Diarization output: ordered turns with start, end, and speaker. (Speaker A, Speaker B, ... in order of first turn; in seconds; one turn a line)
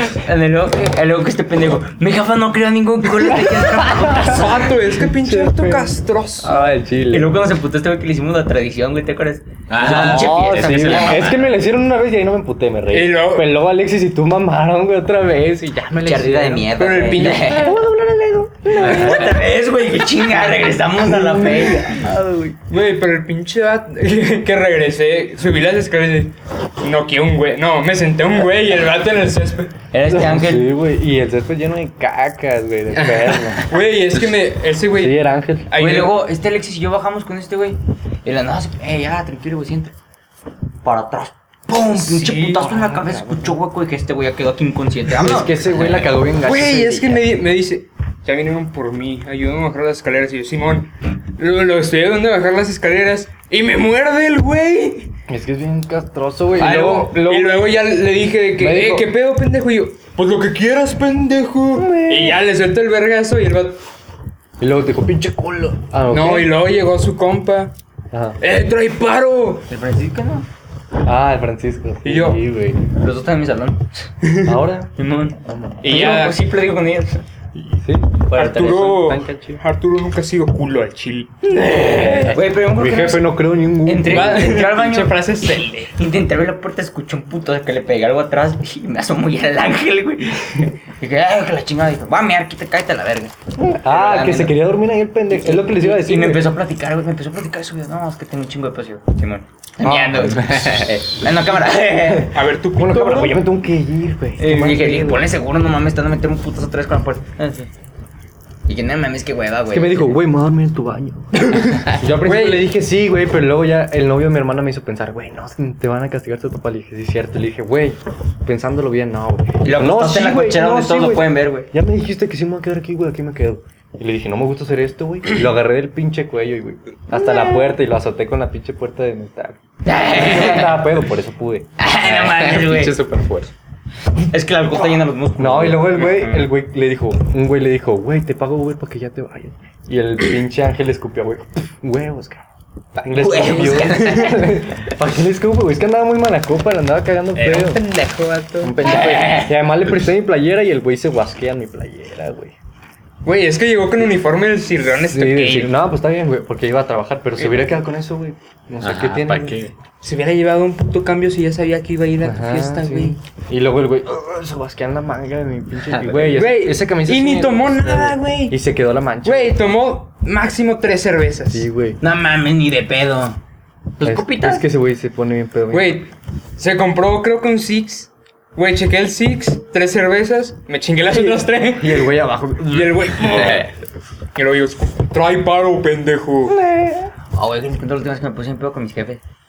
Speaker A: 0.1-4.7
Speaker B: 3.4-7.4
Speaker C: 4.0-6.5
Speaker A: 7.1-11.3
Speaker D: 9.7-11.5
Speaker B: 9.8-19.4
Speaker C: 12.9-13.5
Speaker A: 16.0-17.8
Speaker C: 16.8-17.7
Speaker A: 18.7-22.0
Speaker D: 18.8-19.1
Speaker B: 20.9-22.6
Speaker C: 22.7-29.7
Speaker A: 29.9-30.7
Speaker B: 30.1-33.7
Speaker C: 33.0-36.1
Speaker B: 34.9-35.7
Speaker A: 35.8-39.9
Speaker A: 40.8-45.7
Speaker C: 41.7-42.8
Speaker B: 42.6-43.6
Speaker B: 45.1-47.3
Speaker C: 46.4-55.1
Speaker B: 55.3-57.7
Speaker C: 56.6-63.8
Speaker B: 58.6-59.1
Speaker B: 61.7-62.4
Speaker B: 64.6-66.5
Speaker C: 66.1-67.7
Speaker B: 68.1-68.4
Speaker C: 68.4-69.7
Speaker A: 69.7-70.5
Speaker B: 71.0-72.8
Speaker C: 72.0-72.4
Speaker A: 72.9-74.1
Speaker C: 74.2-74.6
Speaker B: 74.4-75.8
Speaker A: 75.0-77.2
Speaker C: 75.8-76.4
Speaker B: 77.6-79.6
Speaker A: 78.3-79.0
Speaker C: 78.3-82.1
Speaker A: 81.5-94.6
Speaker B: 81.8-84.7
Speaker C: 84.0-85.9
Speaker B: 93.5-96.5
Speaker A: 95.3-102.4
Speaker B: 99.8-100.4
Speaker D: 100.2-100.9
Speaker B: 102.0-105.3
Speaker C: 102.3-103.4
Speaker A: 104.4-107.7
Speaker A: 108.7-110.2
Speaker B: 109.7-131.7
Speaker C: 112.2-112.7
Speaker A: 119.6-121.7
Speaker A: 129.8-130.8
Speaker A: 131.8-132.9
Speaker D: 132.0-133.5
Speaker A: 134.3-136.1
Speaker B: 135.4-142.4
Speaker C: 136.0-136.5
Speaker A: 143.0-144.6
Speaker B: 143.0-147.8
Speaker C: 147.3-148.8
Speaker B: 148.6-152.5
Speaker A: 148.8-149.5
Speaker C: 153.2-155.8
Speaker B: 155.1-159.6
Speaker C: 157.4-157.7
Speaker D: 158.8-159.7
Speaker C: 160.0-163.2
Speaker B: 162.2-169.6
Speaker D: 165.9-166.5
Speaker C: 166.3-168.6
Speaker C: 169.2-171.7
Speaker B: 171.5-172.0
Speaker A: 172.0-173.4
Speaker A: 174.0-174.6
Speaker B: 174.0-176.0
Speaker C: 175.7-182.1
Speaker B: 181.1-183.5
Speaker C: 182.7-183.7
Speaker D: 183.3-183.7
Speaker C: 184.3-186.6
Speaker B: 186.5-187.1
Speaker A: 187.3-189.2